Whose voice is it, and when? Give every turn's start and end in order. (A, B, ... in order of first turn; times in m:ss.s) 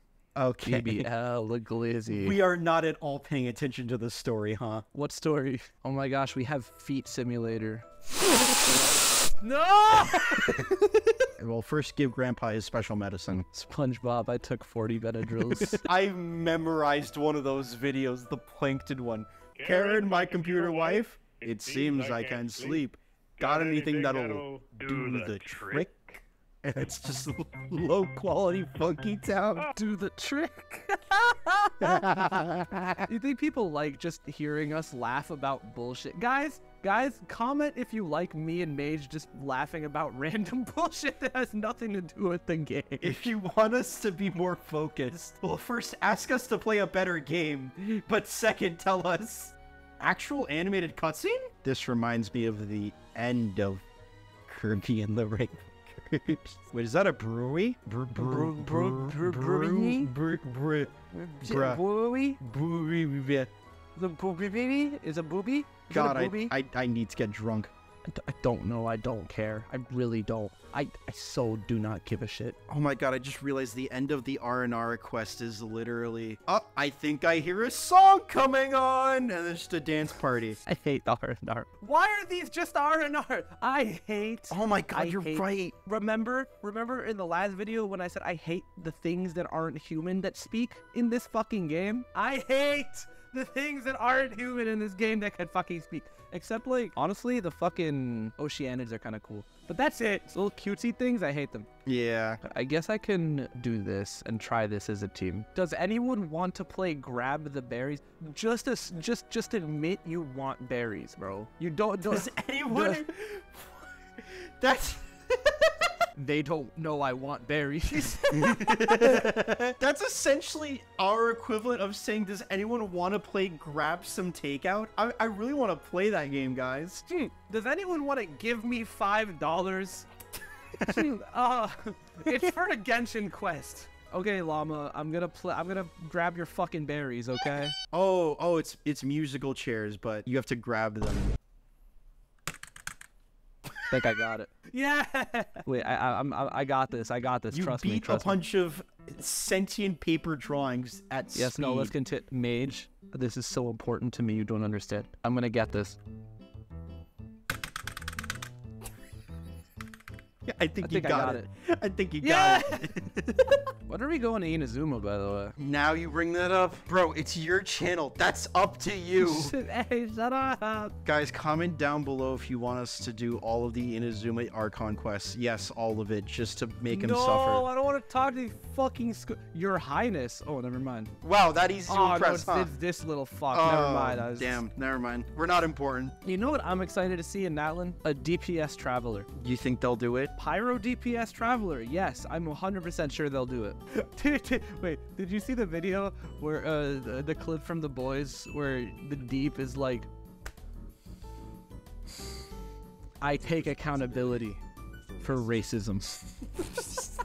0:00.3-0:01.1 A
0:00.6-0:02.4 B
0:02.1-0:04.8 A
0:04.9-0:10.7 B
0:10.3-0:13.5 A
0:13.5-0:15.8 B
0:15.4-0:29.7 A
0:29.7-0:32.2 B
0:31.8-0:33.1 A
0:33.1-0:43.2 B
0:43.0-0:53.8 A
0:54.4-1:01.8 A
0:58.2-1:00.1 B
1:01.1-1:02.4 B
1:02.4-1:03.5 A
1:04.0-1:06.5 B
1:05.9-1:07.7 A
1:08.0-1:12.6 B
1:12.7-1:20.6 A
1:20.6-1:41.7 B
1:24.5-1:25.7 A
1:41.8-1:42.4 A
1:42.4-1:53.0 B
1:52.1-1:56.0 A
1:56.1-1:59.3 B
1:58.3-2:07.0 A
2:07.1-2:10.1 B
2:10.8-2:11.1 A
2:10.9-2:17.7 B
2:17.9-2:21.4 A
2:23.9-2:28.4 B
2:27.5-2:31.9 A
2:31.3-2:36.0 B
2:40.4-2:43.7 A
2:40.8-2:41.5 B
2:42.2-2:42.9 B
2:43.9-2:45.6 B
2:45.6-2:49.5 A
2:49.2-2:50.9 B
2:51.0-2:57.7 A
2:56.9-3:01.1 B
3:01.2-3:02.7 A
3:01.9-3:04.6 B
3:03.5-3:06.1 A
3:06.2-3:09.3 B
3:09.3-3:10.3 A
3:10.4-3:20.1 B
3:23.2-3:24.6 B
3:25.2-3:27.1 B